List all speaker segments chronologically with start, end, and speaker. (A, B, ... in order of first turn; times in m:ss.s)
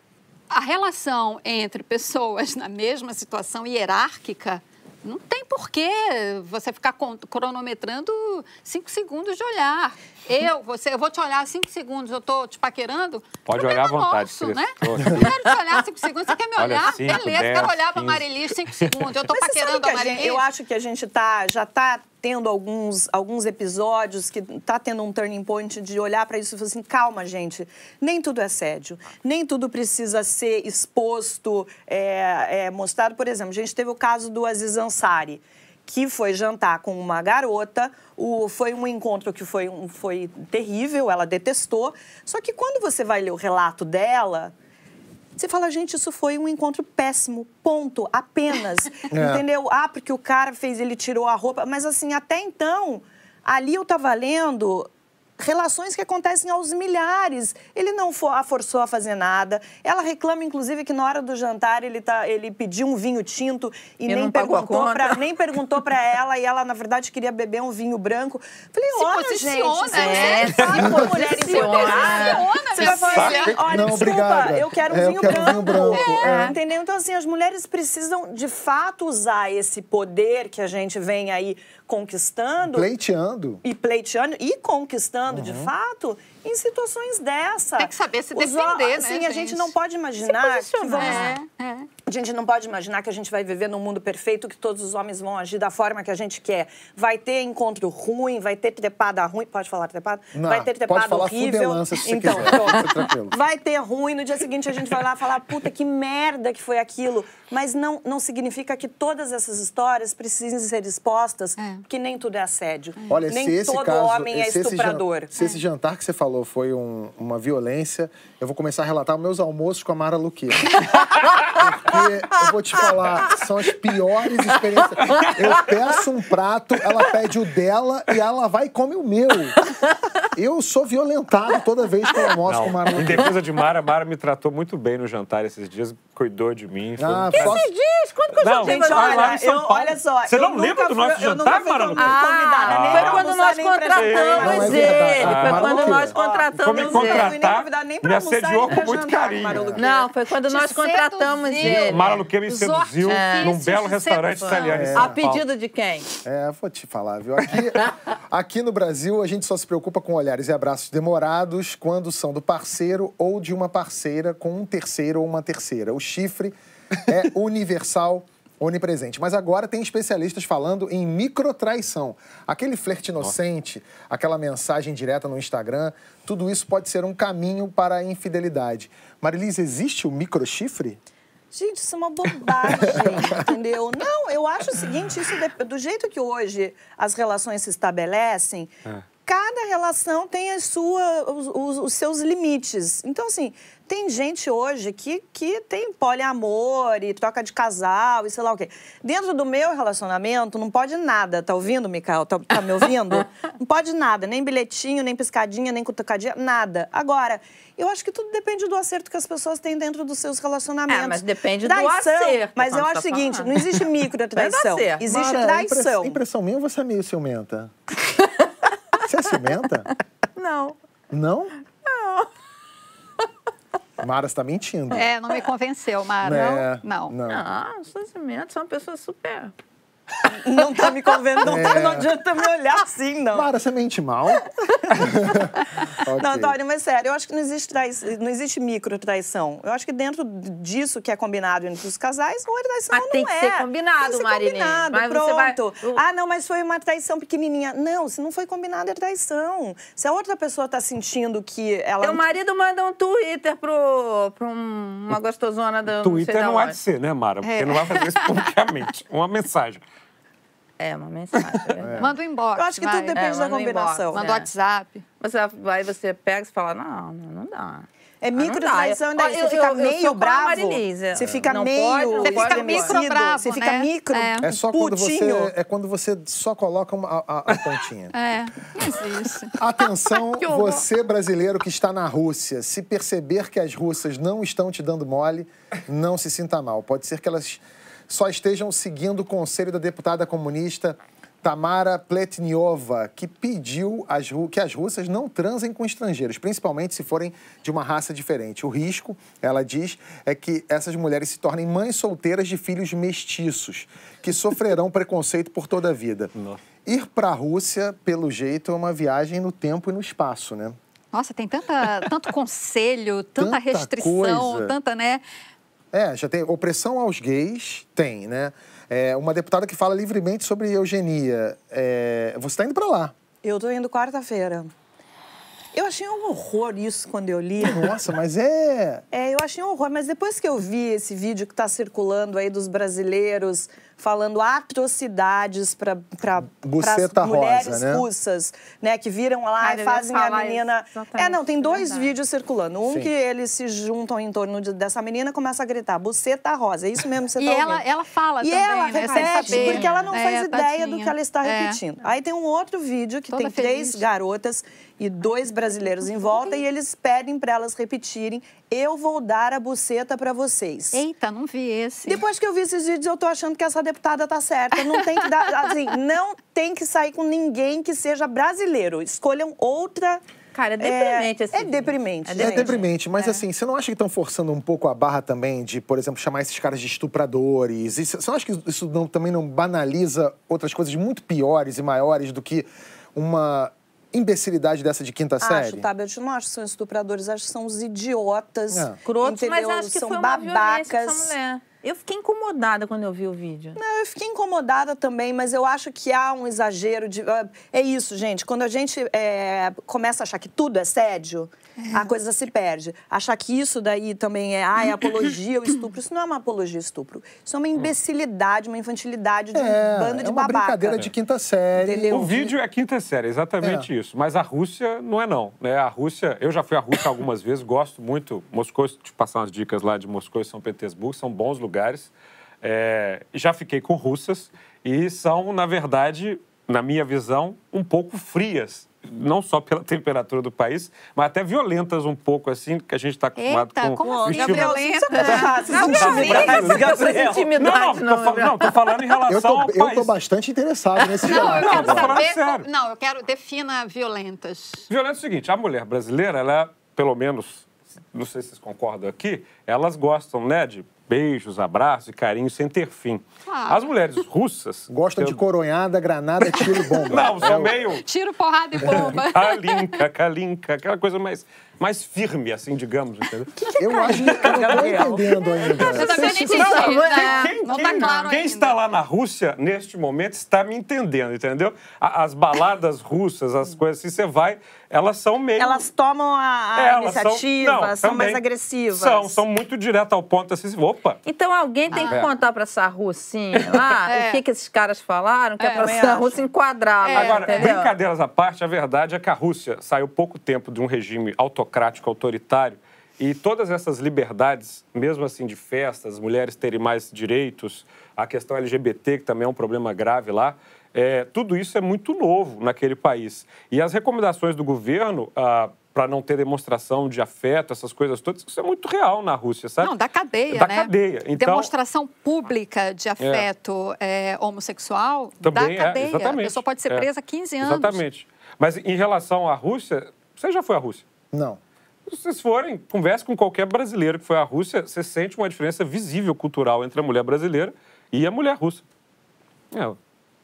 0:00.5-0:20.4 A
0:13.5-0:15.3 B
0:16.6-0:18.2 B
0:19.3-0:44.5 C
0:45.4-1:22.9 C
0:49.1-0:49.4 D
1:04.1-1:05.2 E
1:08.9-1:13.6 A
1:09.9-1:13.3 E
1:13.0-1:14.2 B
1:13.7-1:16.5 D
1:15.8-1:16.5 A
1:15.9-1:16.5 E
1:22.6-1:23.6 D
1:23.6-1:31.3 C
1:25.3-1:25.7 D
1:27.8-1:29.7 A
1:30.2-1:31.4 E
1:30.9-1:31.9 A
1:32.1-1:55.3 C
1:40.3-1:43.3 D
1:51.6-1:51.8 A
1:53.1-2:00.9 D
2:01.5-2:09.6 D
2:05.0-2:05.5 B
2:10.3-2:13.4 D
2:12.5-2:17.6 B
2:17.0-2:17.7 D
2:17.3-2:19.4 E
2:18.3-2:23.3 B
2:18.6-2:30.1 C
2:22.0-2:27.4 E
2:23.9-2:25.8 B
2:24.4-2:26.2 D
2:26.6-2:29.7 B
2:29.5-2:29.8 D
2:29.8-2:32.2 E
2:30.4-2:35.0 A
2:31.6-2:35.4 B
2:33.1-2:33.6 E
2:34.5-2:36.1 E
2:34.7-2:35.2 D
2:36.2-2:46.5 D
2:47.1-3:01.0 D
3:01.5-3:08.7 C
3:02.8-3:03.4 D
3:09.2-3:36.2 C
3:30.9-3:33.8 E
3:34.4-3:35.0 E
3:35.0-3:37.7 D
3:38.2-3:39.0 E
3:39.0-3:39.9 D
3:40.4-3:40.8 E
3:41.1-3:41.5 D
3:41.8-3:42.3 E
3:44.0-3:45.1 D
3:44.9-3:47.2 A
3:46.2-3:47.4 D
3:47.3-3:49.5 E
3:50.2-3:53.5 C
3:51.4-3:52.1 D
3:53.3-3:56.6 D
3:56.2-4:12.2 C
4:02.9-4:06.0 E
4:12.0-4:16.8 E
4:16.0-4:19.8 B
4:17.4-4:18.4 A
4:20.8-4:22.0 E
4:21.8-4:22.1 D
4:22.0-4:23.3 A
4:22.6-4:24.3 C
4:23.2-4:24.5 E
4:24.1-4:25.0 A
4:25.2-4:33.0 E
4:28.2-4:35.5 C
4:32.2-4:34.5 A
4:34.4-4:38.1 D
4:38.1-4:39.6 A
4:39.6-5:06.3 D
4:40.3-4:40.8 E
5:06.8-5:10.8 D
5:11.1-5:15.2 A
5:13.4-5:14.7 D
5:15.9-5:23.1 D
5:23.4-5:24.7 C
5:25.7-5:28.0 C
5:27.6-5:29.0 D
5:29.1-5:47.8 C
5:36.5-5:38.1 D
5:39.6-5:42.1 E
5:47.4-5:51.8 A
5:48.4-6:01.0 C
5:48.9-5:50.2 E
5:53.3-5:54.0 A
6:00.9-6:02.2 A
6:02.0-6:10.2 C
6:10.5-6:12.8 E
6:10.8-6:12.9 C
6:12.4-6:25.9 D
6:25.4-6:31.3 C
6:28.7-6:29.0 D
6:29.0-6:33.8 E
6:33.8-6:51.0 C
6:41.8-6:42.1 A
6:49.5-6:52.2 D
6:51.7-6:52.5 C
6:52.1-7:20.1 B
6:53.6-6:53.9 D
7:13.4-7:16.8 A
7:14.0-7:17.5 C
7:15.6-7:18.7 E
7:19.3-7:22.2 D
7:21.2-7:24.9 A
7:21.3-7:22.7 B
7:24.9-7:35.4 B
7:33.5-7:33.9 A
7:34.9-7:37.7 D
7:36.4-7:38.0 B
7:37.6-7:40.0 A
7:38.8-7:45.0 B
7:38.8-7:39.2 D
7:43.6-7:44.1 A
7:43.8-7:46.6 D
7:44.1-7:46.2 C
7:45.8-7:55.8 B
7:45.9-7:48.8 A
7:46.0-7:48.2 E
7:55.6-7:59.4 C
7:56.8-8:01.2 B
8:01.3-8:07.9 E
8:01.9-8:02.2 A
8:01.9-8:02.3 B
8:04.1-8:04.4 A
8:05.6-8:06.0 A
8:05.8-8:06.4 C
8:07.0-8:07.8 A
8:07.1-8:29.9 B
8:29.8-8:38.0 A
8:30.5-8:31.7 B
8:33.2-8:33.5 B
8:35.4-8:37.1 B
8:37.6-8:41.0 B
8:41.3-8:41.6 D
8:42.1-8:48.8 B
8:49.7-8:50.0 B